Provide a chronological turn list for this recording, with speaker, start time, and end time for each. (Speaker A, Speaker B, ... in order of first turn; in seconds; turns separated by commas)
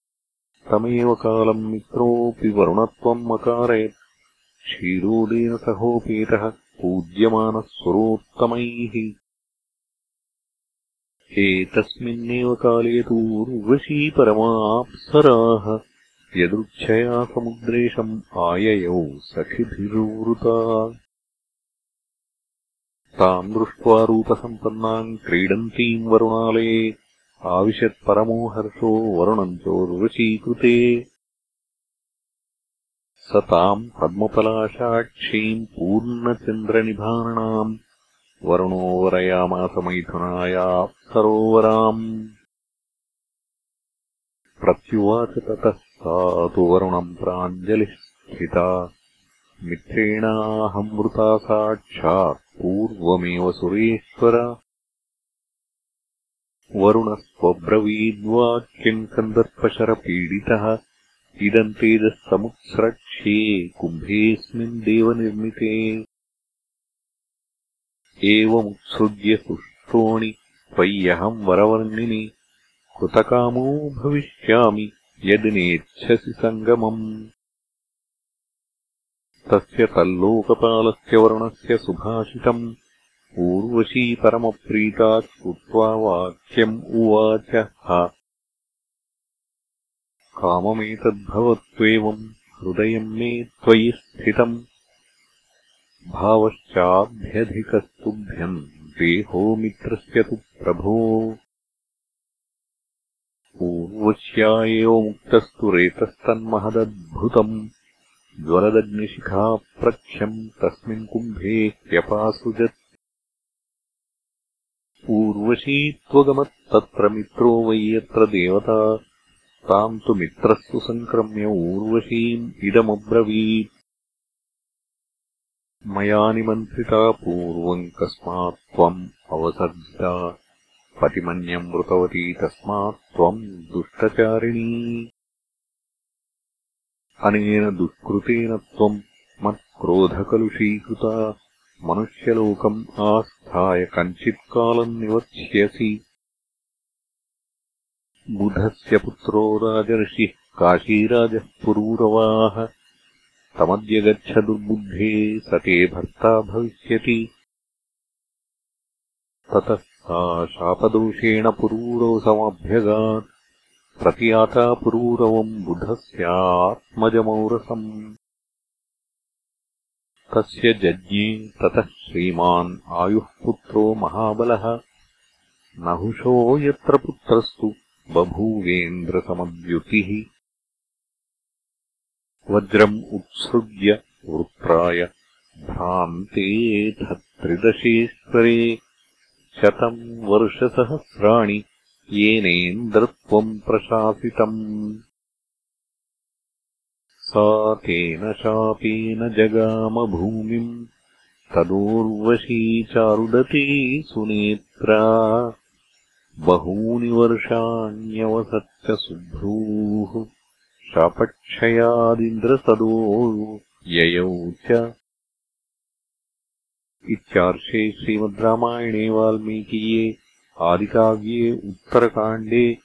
Speaker A: 0.7-3.9, Speaker A: 4.7-9.1, Speaker A: 11.4-15.8, Speaker A: 16.4-20.9, Speaker A: 23.2-26.7, Speaker A: 27.5-30.8, Speaker A: 33.3-37.7, Speaker A: 38.5-42.0, Speaker A: 44.6-48.7, Speaker A: 49.7-54.5, Speaker A: 56.8-60.7, Speaker A: 61.4-65.8, Speaker A: 68.3-72.2, Speaker A: 73.0-77.0, Speaker A: 79.5-82.6, Speaker A: 83.4-88.1, Speaker A: 90.4-94.5, Speaker A: 96.1-101.0, Speaker A: 103.6-107.5, Speaker A: 108.5-112.7, Speaker A: 115.1-118.8, Speaker A: 119.7-123.7, Speaker A: 125.9-130.2, Speaker A: 131.0-134.9, Speaker A: 137.3-141.2, Speaker A: 141.9-145.9, Speaker A: 148.4-152.7, Speaker A: 153.6-157.2, Speaker A: 159.5-163.2, Speaker A: 164.0-167.9, Speaker A: 170.3-174.7, Speaker A: 175.9-180.2, Speaker A: 182.5-185.1, Speaker A: 185.7-188.6, Speaker A: 189.6-191.6, Speaker A: 192.2-194.6, Speaker A: 197.2-200.7, Speaker A: 201.5-205.4, Speaker A: 206.5-210.2, Speaker A: 210.9-214.8, Speaker A: 217.1-220.1, Speaker A: 220.7-222.6